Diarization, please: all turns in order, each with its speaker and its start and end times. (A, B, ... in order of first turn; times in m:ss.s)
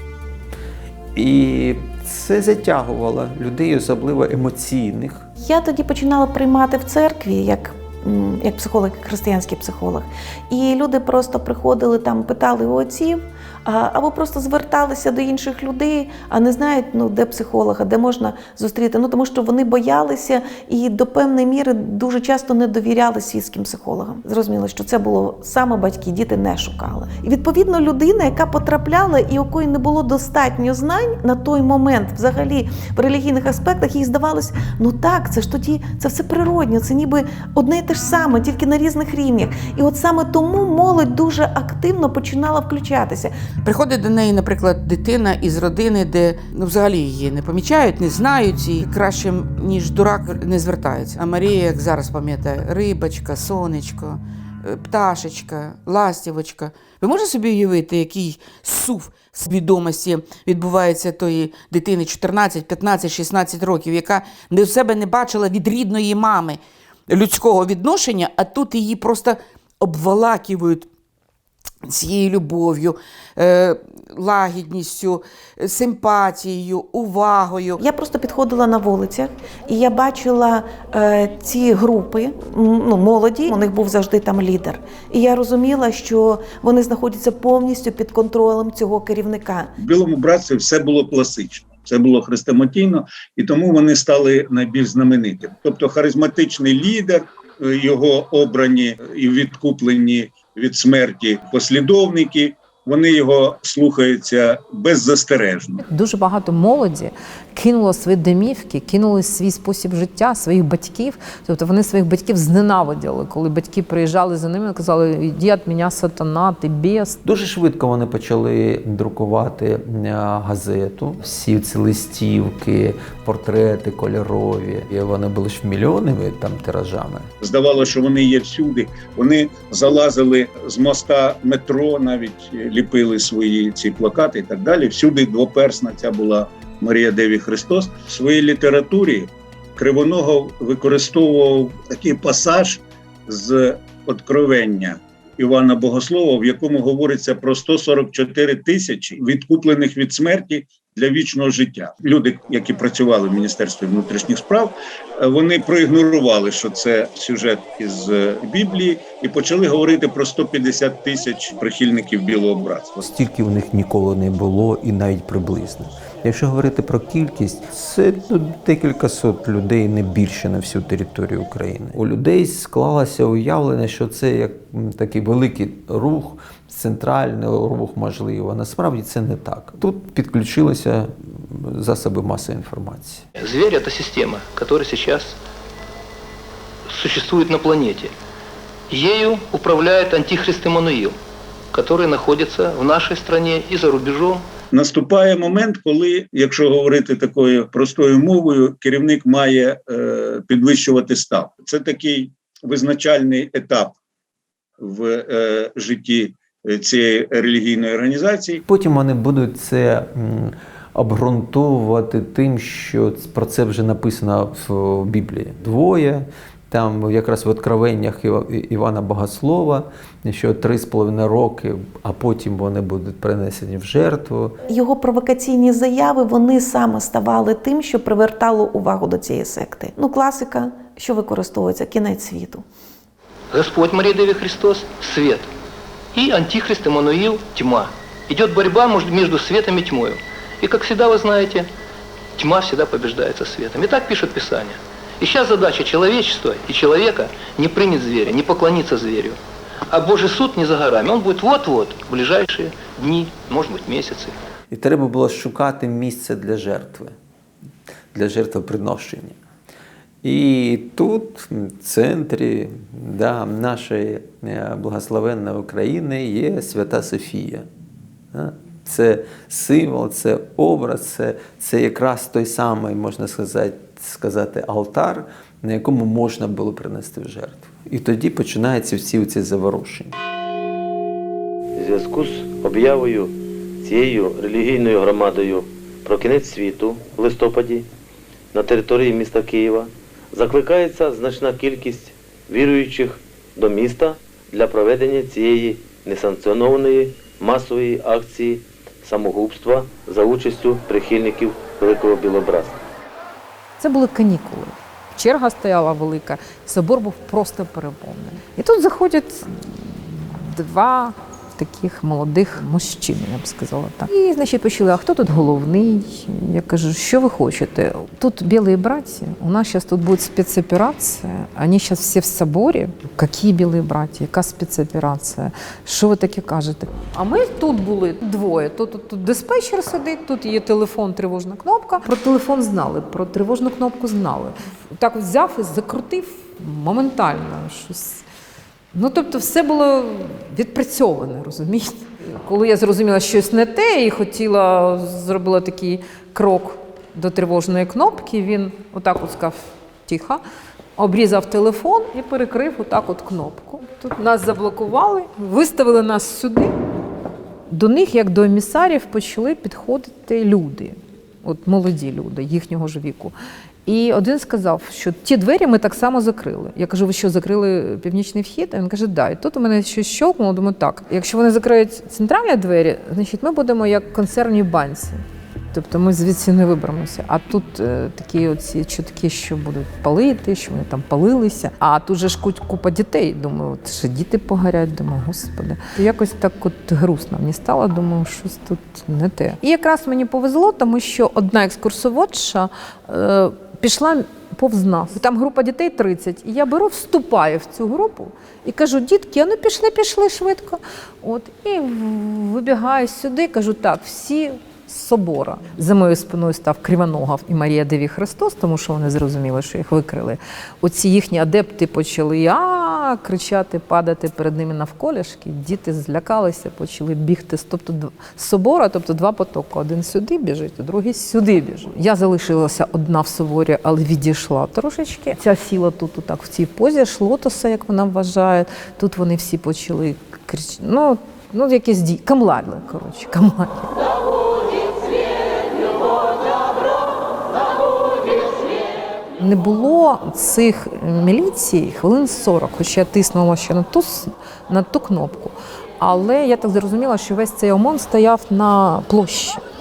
0:01.2-0:05.3 A
0:05.4-0:43.3 B
0:43.6-1:10.9 C
1:11.9-1:17.8 C
1:17.8-1:29.7 B
1:29.8-1:45.8 D
1:45.8-1:57.2 E
1:57.2-2:07.3 A
2:07.4-2:43.0 D
2:43.0-3:03.3 A
3:03.4-3:05.4 F
3:06.9-3:08.1 F
3:08.9-3:11.2 F
3:11.7-3:14.5 F
3:14.7-3:24.0 D
3:24.8-3:28.6 D
3:28.7-3:44.6 A
3:44.7-3:52.6 B
3:53.5-3:55.5 F
3:56.1-4:01.7 F
4:02.4-4:09.4 F
4:09.9-4:14.4 F
4:14.7-4:17.2 A
4:18.1-4:19.4 A
4:20.2-4:27.7 A
4:28.3-4:40.2 A
4:41.8-4:47.9 G
4:48.5-5:02.8 G
5:03.8-5:38.2 E
5:38.9-5:50.4 E
5:51.0-5:56.8 E
5:57.7-6:03.3 E
6:03.9-7:14.0 E
7:19.4-7:29.6 E